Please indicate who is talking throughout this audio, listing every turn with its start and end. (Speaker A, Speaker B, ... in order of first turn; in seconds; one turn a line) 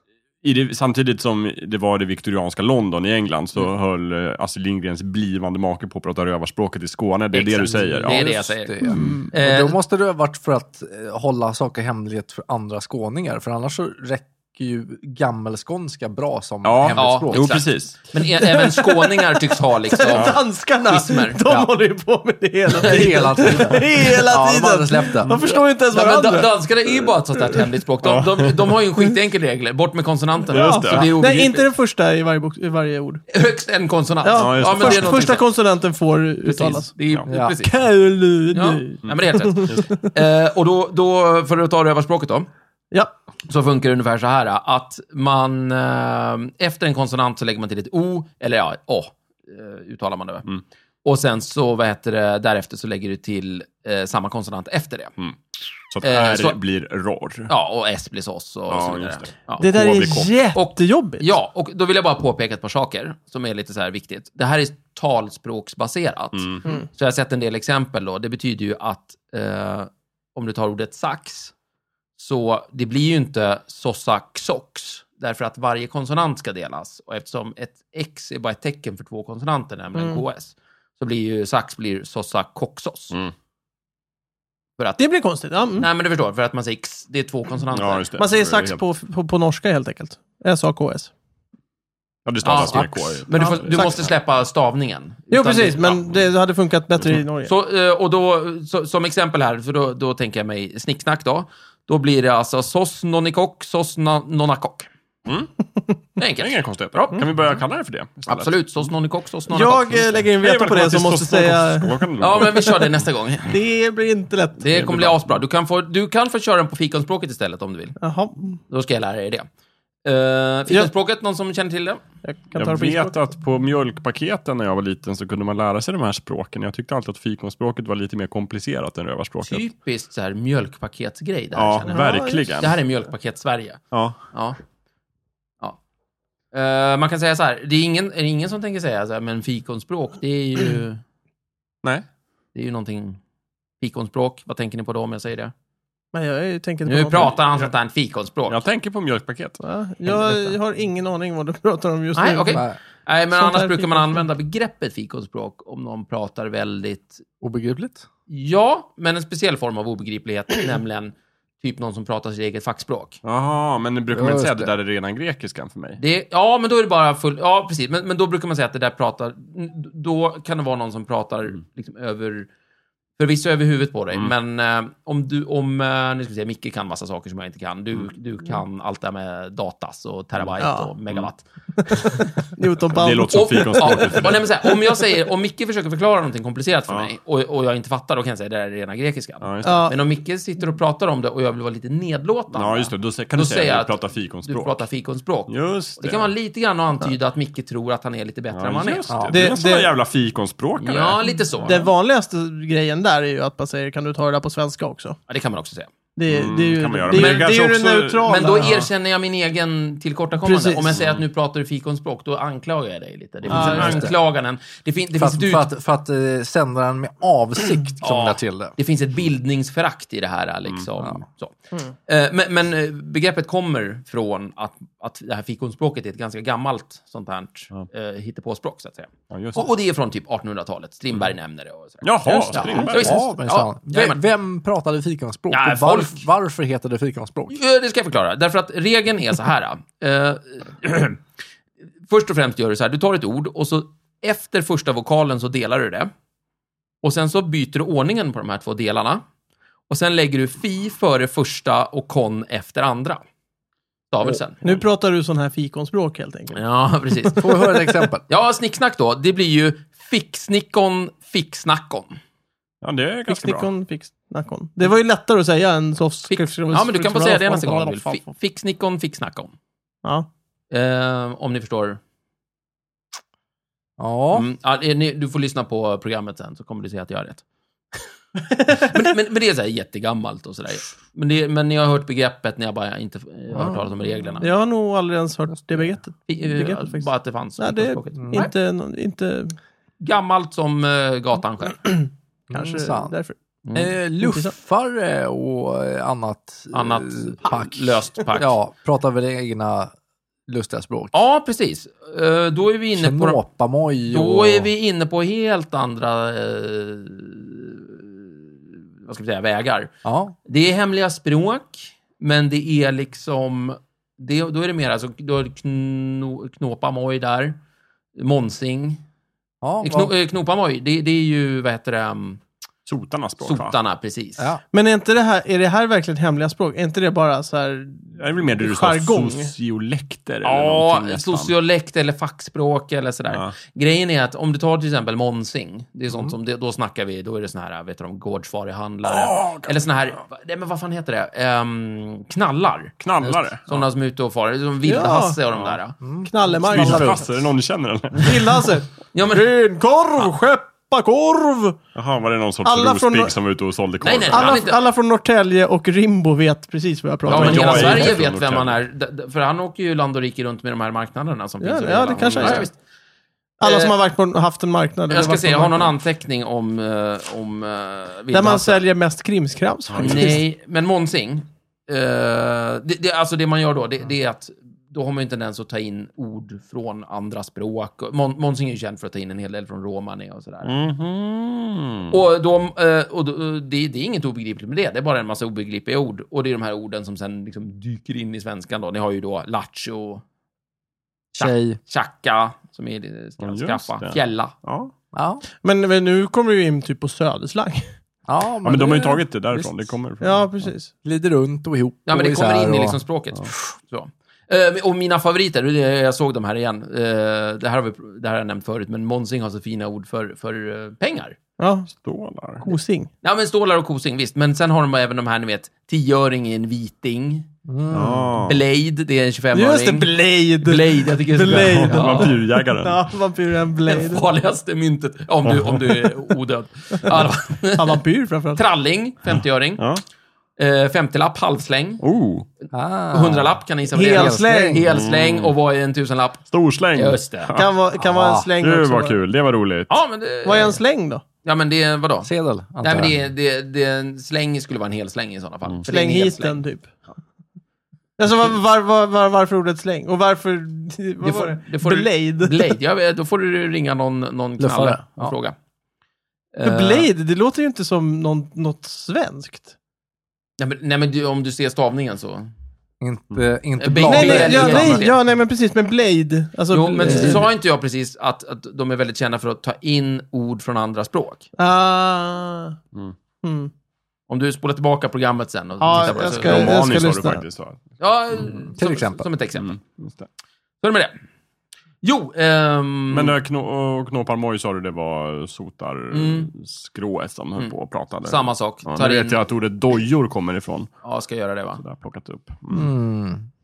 Speaker A: 0.4-8.3
Speaker B: 7.3-9.8
Speaker C: 7.8-17.6
Speaker D: 8.8-9.3
Speaker A: 16.6-18.1
Speaker B: 16.9-21.4
Speaker D: 18.4-26.5
Speaker C: 21.4-21.7
Speaker B: 22.7-23.8
Speaker C: 22.8-25.4
Speaker B: 25.4-31.6
Speaker A: 28.0-28.7
Speaker A: 30.5-31.1
Speaker D: 30.5-33.2
Speaker B: 33.3-35.4
Speaker D: 34.2-36.9
Speaker A: 34.3-35.4
Speaker B: 36.4-37.7
Speaker C: 37.3-37.6
Speaker D: 37.6-40.1
Speaker B: 38.5-42.5
Speaker A: 39.0-39.9
Speaker B: 43.5-50.5
Speaker B: 51.0-55.1
Speaker A: 55.9-57.5
Speaker B: 56.0-56.6
Speaker B: 57.5-59.6
Speaker A: 58.7-60.3
Speaker D: 59.6-61.3
Speaker B: 60.5-71.5
Speaker A: 66.3-66.7
Speaker B: 72.2-83.2
Speaker D: 80.0-80.2
Speaker D: 85.0-85.9
Speaker B: 85.8-88.1
Speaker A: 87.7-88.8
Speaker D: 88.2-91.1
Speaker A: 92.2-94.1
Speaker B: 92.4-96.0
Speaker C: 92.7-93.1
Speaker D: 93.4-94.0
Speaker D: 95.3-97.5
Speaker A: 95.9-96.2
Speaker B: 97.4-104.9
Speaker A: 105.2-105.5
Speaker B: 106.2-107.3
Speaker A: 106.4-108.6
Speaker B: 108.3-110.2
Speaker D: 109.5-112.7
Speaker A: 110.4-112.8
Speaker B: 112.2-113.6
Speaker D: 113.5-114.6
Speaker B: 114.6-118.0
Speaker A: 114.7-115.4
Speaker D: 118.0-118.6
Speaker B: 118.7-119.5
Speaker B: 120.0-122.0
Speaker D: 122.2-123.2
Speaker A: 122.5-129.6
Speaker B: 129.4-133.8
Speaker A: 131.6-132.8
Speaker D: 131.9-132.6
Speaker A: 133.9-134.2
Speaker B: 134.3-134.6
Speaker B: 136.5-141.0
Speaker B: 142.6-143.2
Speaker B: 143.8-145.5
Speaker D: 146.1-147.4
Speaker B: 146.9-148.6
Speaker A: 148.5-149.6
Speaker D: 149.6-152.7
Speaker B: 150.1-150.5
Speaker B: 152.1-157.2
Speaker D: 153.3-154.2
Speaker C: 157.4-158.1
Speaker B: 158.3-163.2
Speaker A: 163.2-166.0
Speaker C: 164.1-164.7
Speaker B: 166.0-172.5
Speaker B: 173.2-181.4
Speaker D: 180.6-180.9
Speaker D: 181.9-185.0
Speaker A: 182.9-184.5
Speaker B: 183.3-199.1
Speaker A: 189.4-189.9
Speaker D: 189.6-189.9
Speaker A: 192.5-194.8
Speaker A: 195.5-196.3
Speaker A: 198.5-201.7
Speaker C: 199.1-199.4
Speaker D: 199.3-199.9
Speaker B: 200.8-201.9
Speaker D: 201.6-205.2
Speaker B: 205.3-205.9
Speaker D: 206.2-208.7
Speaker A: 206.3-208.8
Speaker B: 207.1-207.5
Speaker B: 208.2-215.7
Speaker D: 210.4-211.0
Speaker A: 213.4-214.1
Speaker D: 213.5-214.0
Speaker C: 213.6-214.1
Speaker C: 215.2-218.7
Speaker B: 218.0-221.6
Speaker B: 222.1-234.2
Speaker A: 229.3-229.7
Speaker A: 232.0-233.2
Speaker C: 232.3-237.6
Speaker B: 235.5-236.2
Speaker B: 237.5-241.2
Speaker B: 242.1-246.1
Speaker B: 247.0-249.2
Speaker B: 249.9-253.2
Speaker B: 254.1-254.6
Speaker D: 254.6-257.5
Speaker B: 256.5-257.5
Speaker C: 257.4-258.2
Speaker B: 258.3-262.2
Speaker A: 262.8-263.7
Speaker D: 263.3-268.2
Speaker B: 266.3-269.5
Speaker B: 270.7-272.0
Speaker C: 274.0-274.5
Speaker B: 274.3-277.4
Speaker B: 278.8-284.5
Speaker C: 283.5-284.2
Speaker D: 284.4-289.6
Speaker C: 285.6-285.9
Speaker B: 286.3-288.5
Speaker C: 288.2-288.5
Speaker B: 290.0-291.8
Speaker D: 291.8-293.4
Speaker C: 292.5-293.2
Speaker B: 293.6-293.9
Speaker C: 293.7-299.9
Speaker D: 294.2-294.5
Speaker B: 296.7-298.6
Speaker C: 300.5-301.1
Speaker B: 301.1-303.4
Speaker C: 303.0-304.7
Speaker B: 304.1-309.9
Speaker C: 310.0-310.3
Speaker B: 310.4-317.6
Speaker B: 318.2-319.0
Speaker C: 319.6-320.1
Speaker B: 319.8-322.4
Speaker A: 322.9-323.7
Speaker B: 323.4-324.5
Speaker D: 324.7-329.5
Speaker A: 328.2-331.5
Speaker B: 330.4-342.9
Speaker A: 339.1-339.7
Speaker A: 343.0-343.9
Speaker B: 343.7-346.0
Speaker D: 344.8-345.4
Speaker A: 345.5-345.8
Speaker C: 346.0-347.3
Speaker D: 346.3-347.2
Speaker A: 346.7-348.8
Speaker D: 348.1-351.8
Speaker B: 349.1-349.5
Speaker A: 351.9-354.6
Speaker D: 352.6-353.3
Speaker B: 354.0-354.8
Speaker D: 354.3-358.1
Speaker A: 357.2-358.8
Speaker B: 357.3-362.8
Speaker D: 361.6-362.7
Speaker A: 362.1-362.7
Speaker D: 363.6-365.9
Speaker B: 363.6-363.9
Speaker B: 365.1-368.8
Speaker D: 368.3-370.4
Speaker A: 369.9-370.4
Speaker B: 370.0-380.8
Speaker A: 380.6-382.1
Speaker B: 382.1-390.2
Speaker B: 391.3-394.5
Speaker C: 391.4-391.8
Speaker A: 393.4-394.9
Speaker C: 395.1-395.4
Speaker D: 395.6-397.9
Speaker C: 398.3-399.9
Speaker A: 398.6-400.4
Speaker D: 400.2-400.9
Speaker C: 400.6-403.0
Speaker B: 402.1-411.4
Speaker D: 411.6-411.9
Speaker A: 411.9-412.7
Speaker D: 412.6-413.1
Speaker B: 413.2-417.5
Speaker C: 417.7-418.4
Speaker A: 417.9-418.6
Speaker B: 418.4-422.3
Speaker D: 419.5-424.3
Speaker A: 421.5-423.0
Speaker B: 423.9-428.0
Speaker A: 425.4-425.8
Speaker D: 427.8-428.6
Speaker B: 428.6-429.8
Speaker B: 430.6-432.0
Speaker A: 432.0-432.5
Speaker C: 432.7-434.9
Speaker B: 433.1-437.6
Speaker D: 433.9-434.8
Speaker A: 434.9-435.6
Speaker A: 436.5-437.7
Speaker D: 437.6-439.2
Speaker C: 438.0-438.5
Speaker A: 438.6-439.9
Speaker B: 439.9-440.8
Speaker D: 440.4-441.2
Speaker B: 441.4-446.6
Speaker C: 442.2-443.2
Speaker D: 445.9-446.9
Speaker D: 448.2-452.7
Speaker B: 451.2-455.6
Speaker C: 454.6-455.3
Speaker B: 456.5-457.1
Speaker D: 456.6-459.7
Speaker B: 460.6-462.5
Speaker C: 463.0-465.1
Speaker B: 463.8-465.2
Speaker D: 464.0-467.5
Speaker B: 466.7-471.4
Speaker C: 467.0-467.4
Speaker D: 471.6-472.8
Speaker D: 473.4-473.7
Speaker B: 474.3-476.9
Speaker D: 475.8-477.4
Speaker A: 476.2-477.8
Speaker B: 478.0-479.8
Speaker C: 478.7-479.2
Speaker A: 479.6-480.3
Speaker B: 480.8-481.1
Speaker B: 482.0-483.3
Speaker A: 483.1-490.9
Speaker B: 486.1-486.5
Speaker B: 487.6-489.4
Speaker B: 491.0-491.8
Speaker A: 491.8-492.9
Speaker C: 492.7-493.4